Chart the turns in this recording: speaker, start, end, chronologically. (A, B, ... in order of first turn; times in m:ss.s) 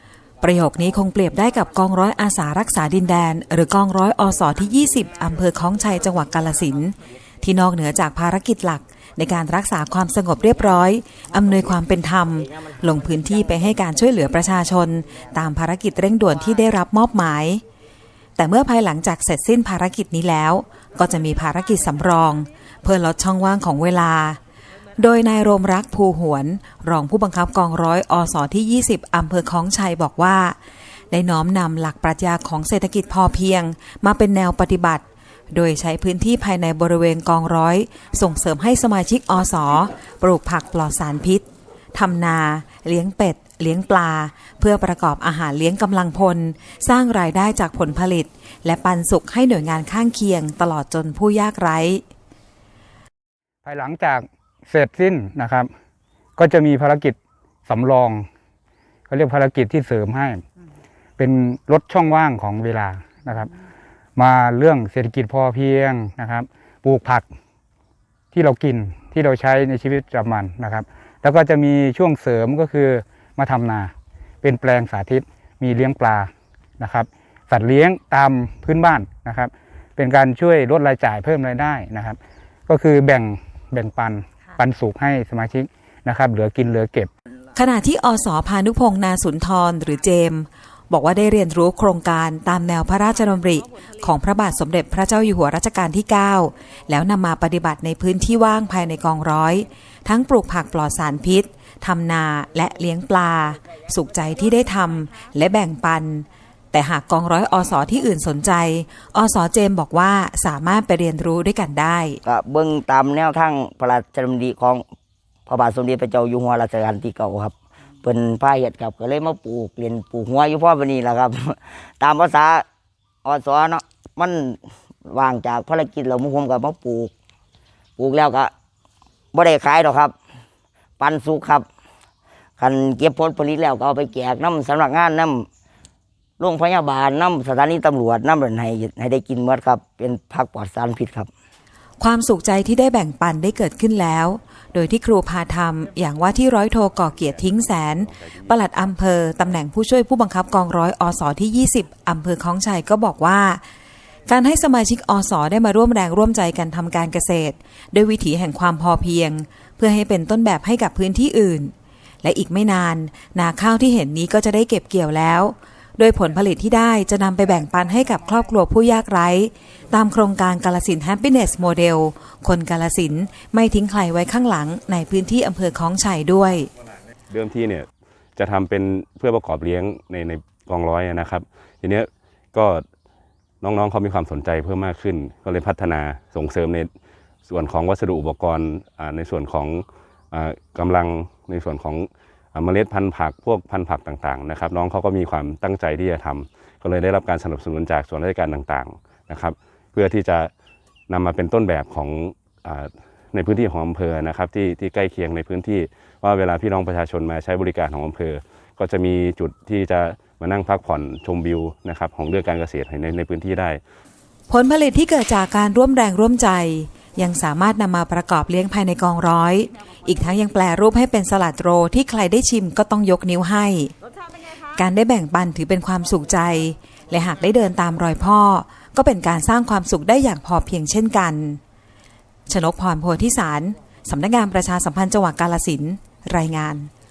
0:00.4-0:17.6 A
0:18.4-0:24.4 A
0:25.0-0:30.6 A
0:31.1-0:52.0 A
0:53.6-0:55.7 B
0:56.4-0:58.3 B
0:59.1-1:00.4 B
1:01.2-1:03.5 B
1:04.2-1:07.2 B
1:08.3-1:27.1 B
1:27.5-1:52.2 A
1:52.2-1:54.8 C
1:55.5-2:02.6 C
2:03.2-2:07.1 C
2:08.0-2:08.5 C
2:09.3-2:10.1 C
2:11.0-2:11.7 C
2:12.6-2:15.5 C
2:16.4-2:21.3 C
2:22.0-2:33.6 A
2:27.3-2:28.5 D
2:34.3-2:56.7 A
2:57.3-3:02.8 D
3:03.6-3:06.9 D
3:07.5-3:20.5 D
3:21.1-3:33.8 D
3:34.5-3:43.9 A
3:44.7-3:51.6 A
3:52.5-3:56.9 A